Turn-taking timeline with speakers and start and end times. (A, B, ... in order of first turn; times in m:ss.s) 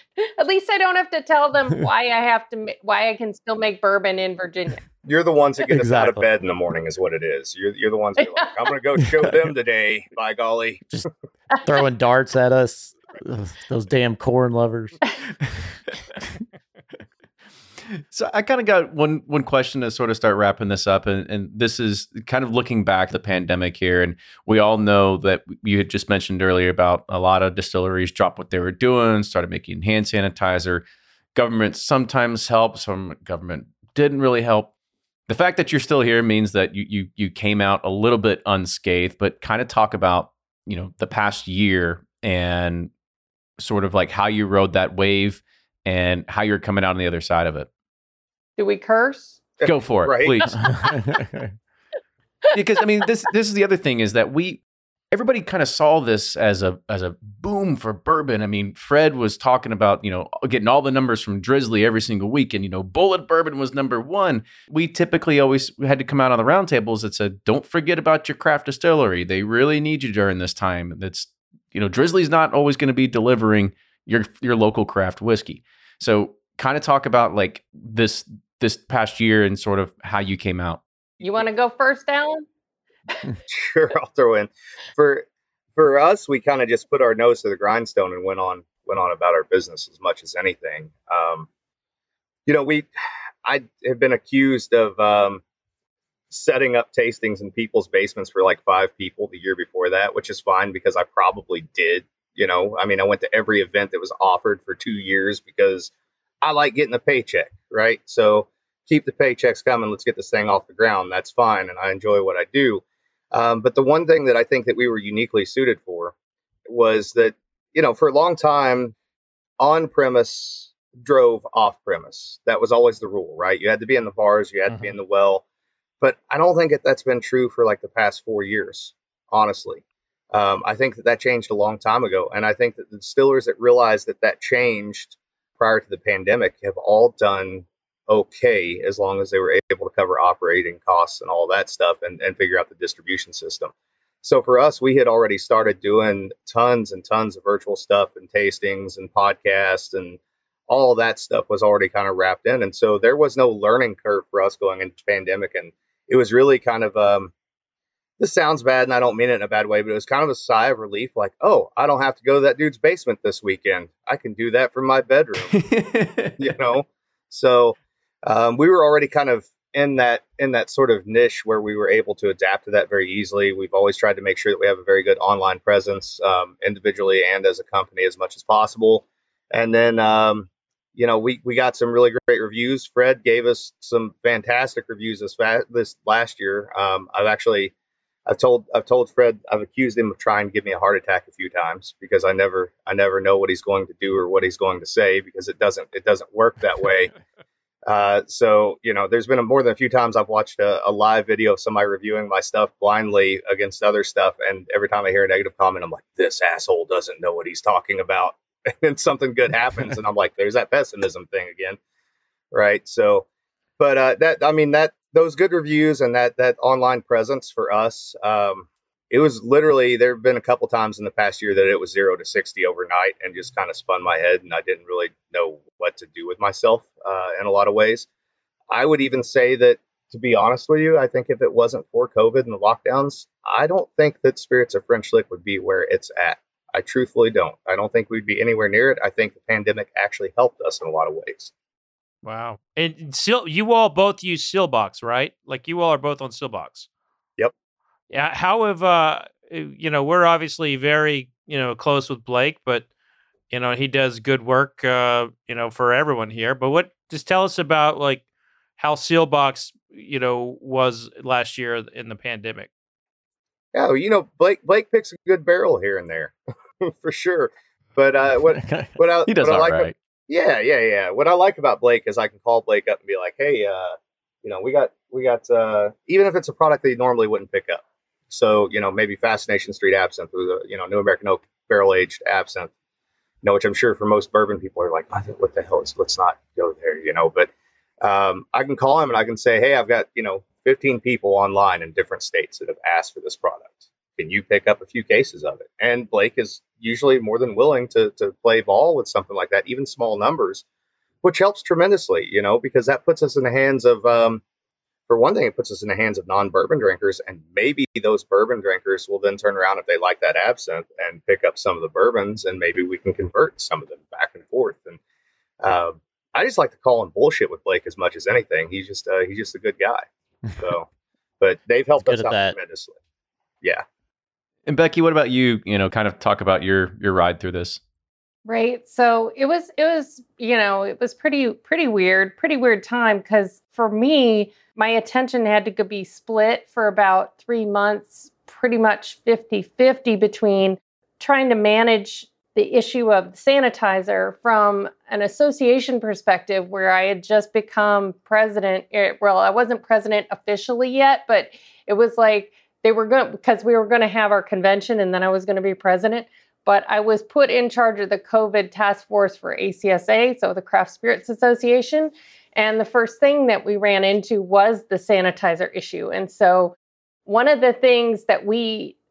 0:00.2-0:04.8 A
0:05.0-0:10.8 B
0:05.7-0:06.2 C
0:11.6-0:15.0 C
0:18.0-0:30.8 D
0:31.3-0:34.7 D
0:35.3-0:42.9 D
0:43.6-0:47.7 D
0:48.6-0:49.4 A
0:49.6-0:50.4 B
0:49.6-0:50.9 D
0:50.6-0:51.5 C
0:52.5-1:20.8 D
1:21.2-1:22.4 A
1:23.5-1:31.5 B
1:32.4-1:32.9 B
1:33.4-1:35.4 B
1:36.3-1:45.9 B
1:46.4-1:56.1 B
1:56.7-1:58.9 B
1:59.6-2:05.4 B
2:06.0-2:37.3 B
2:38.2-2:45.6 B
2:45.4-2:46.5 D
2:46.4-3:07.7 B
3:08.3-3:17.1 B
3:17.8-3:31.8 B
3:32.5-3:33.3 B
3:33.8-3:48.1 B
3:48.7-4:01.5 B
4:02.2-4:06.9 E
4:08.1-4:12.9 E
4:13.5-4:18.2 E
4:18.8-4:22.7 E
4:23.7-4:42.7 B
4:28.6-4:28.9 C
4:29.3-4:29.9 D
4:43.4-4:47.5 B
4:48.0-5:00.6 B
5:01.2-5:04.4 B
5:05.1-5:15.0 B
5:15.6-5:20.0 B
5:20.6-5:20.9 B
5:21.4-5:23.0 B
5:22.0-5:22.6 C
5:24.7-5:27.8 D
5:28.4-6:06.7 A
6:07.2-6:09.0 A